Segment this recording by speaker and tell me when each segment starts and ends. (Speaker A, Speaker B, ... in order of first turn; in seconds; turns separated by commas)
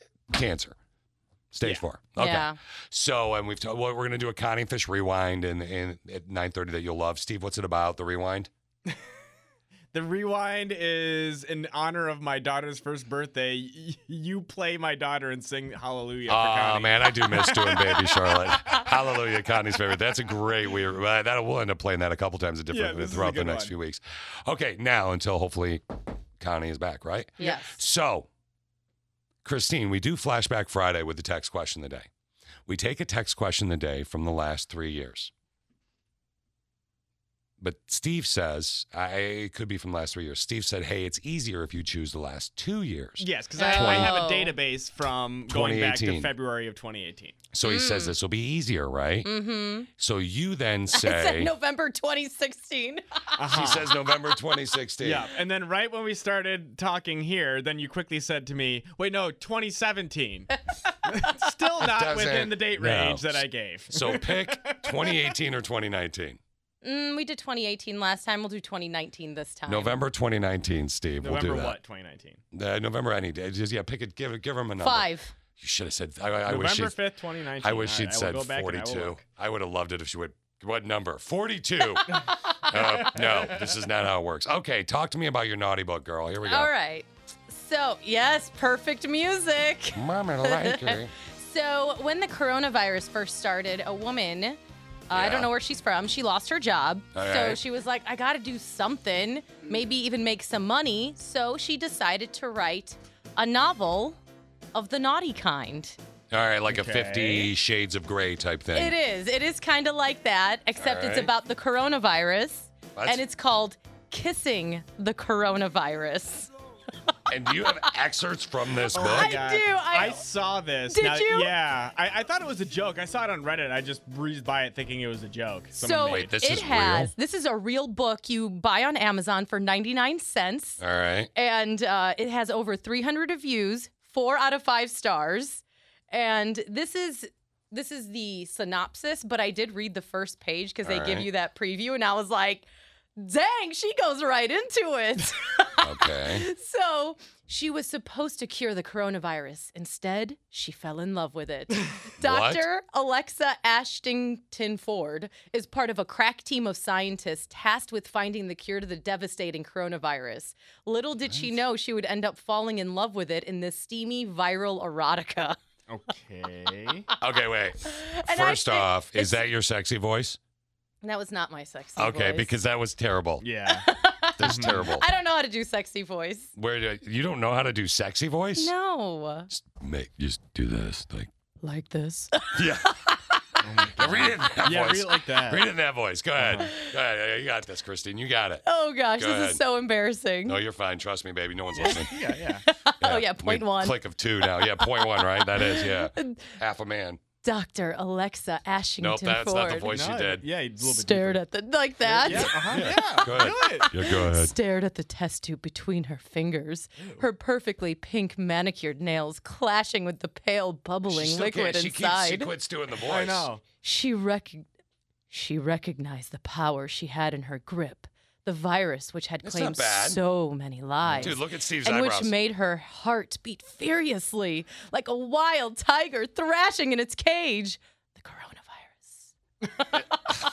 Speaker A: 0.3-0.7, Speaker A: 1.5-8.5, Speaker B: 2.2-2.6, Speaker C: 9.9-18.1, Speaker A: 16.3-25.8, Speaker C: 22.7-23.7, Speaker A: 26.4-28.3, Speaker B: 27.4-27.8, Speaker A: 29.4-32.1, Speaker A: 32.7-35.3, Speaker A: 37.6-44.2, Speaker C: 43.2-47.4, Speaker B: 43.5-44.5, Speaker A: 45.5-46.3, Speaker A: 47.5-49.3, Speaker B: 47.6-48.1, Speaker B: 49.2-49.9, Speaker A: 50.0-51.5, Speaker B: 50.9-53.0, Speaker C: 53.4-54.0, Speaker A: 53.5-55.3, Speaker C: 55.0-60.5, Speaker C: 61.1-65.2, Speaker A: 61.8-66.4, Speaker B: 66.8-70.0, Speaker A: 69.7-71.8, Speaker C: 71.2-72.4, Speaker A: 72.5-77.0, Speaker B: 74.8-75.3, Speaker C: 76.5-79.2, Speaker A: 77.6-82.1, Speaker A: 82.7-86.7, Speaker C: 82.7-83.7, Speaker B: 82.8-83.1, Speaker B: 86.4-94.6, Speaker A: 90.0-91.1, Speaker B: 95.1-104.2, Speaker A: 95.1-95.5, Speaker A: 97.1-97.6, Speaker B: 104.7-106.0, Speaker A: 106.3-108.9, Speaker C: 106.7-107.5, Speaker B: 108.7-116.5, Speaker A: 110.8-111.3, Speaker A: 113.0-113.2, Speaker A: 117.3-119.4, Speaker C: 118.9-126.4, Speaker B: 118.9-120.2, Speaker B: 120.9-121.5, Speaker B: 125.8-130.8, Speaker A: 126.0-127.1, Speaker A: 130.8-131.3, Speaker B: 131.3-142.7, Speaker A: 140.8-141.3, Speaker B: 143.2-165.6, Speaker A: 145.8-146.4, Speaker A: 152.2-152.7, Speaker A: 161.2-161.5, Speaker C: 165.9-167.1, Speaker A: 167.2-170.4, Speaker B: 167.9-169.5, Speaker B: 171.0-172.5, Speaker A: 171.9-173.4, Speaker C: 173.4-173.9, Speaker B: 173.8-176.5, Speaker A: 174.4-175.1, Speaker C: 174.4-174.9, Speaker A: 176.6-178.7, Speaker B: 178.6-179.5, Speaker A: 179.5-181.3, Speaker B: 181.6-182.6, Speaker A: 182.5-182.9, Speaker C: 183.6-185.7, Speaker A: 183.9-188.6, Speaker C: 186.4-186.7, Speaker B: 188.7-190.6, Speaker A: 189.2-189.6, Speaker A: 190.4-192.1, Speaker C: 191.7-192.6, Speaker B: 192.7-196.5, Speaker A: 193.0-197.2, Speaker B: 197.4-200.0, Speaker A: 199.0-200.4, Speaker C: 199.9-201.4, Speaker B: 200.8-202.9, Speaker C: 202.0-204.0, Speaker A: 202.2-204.5, Speaker B: 204.0-212.5, Speaker C: 207.0-207.2, Speaker A: 211.1-213.5, Speaker C: 213.1-213.6, Speaker B: 213.8-214.7, Speaker B: 215.3-229.3, Speaker A: 219.4-220.2, Speaker C: 221.0-221.3, Speaker A: 221.2-222.3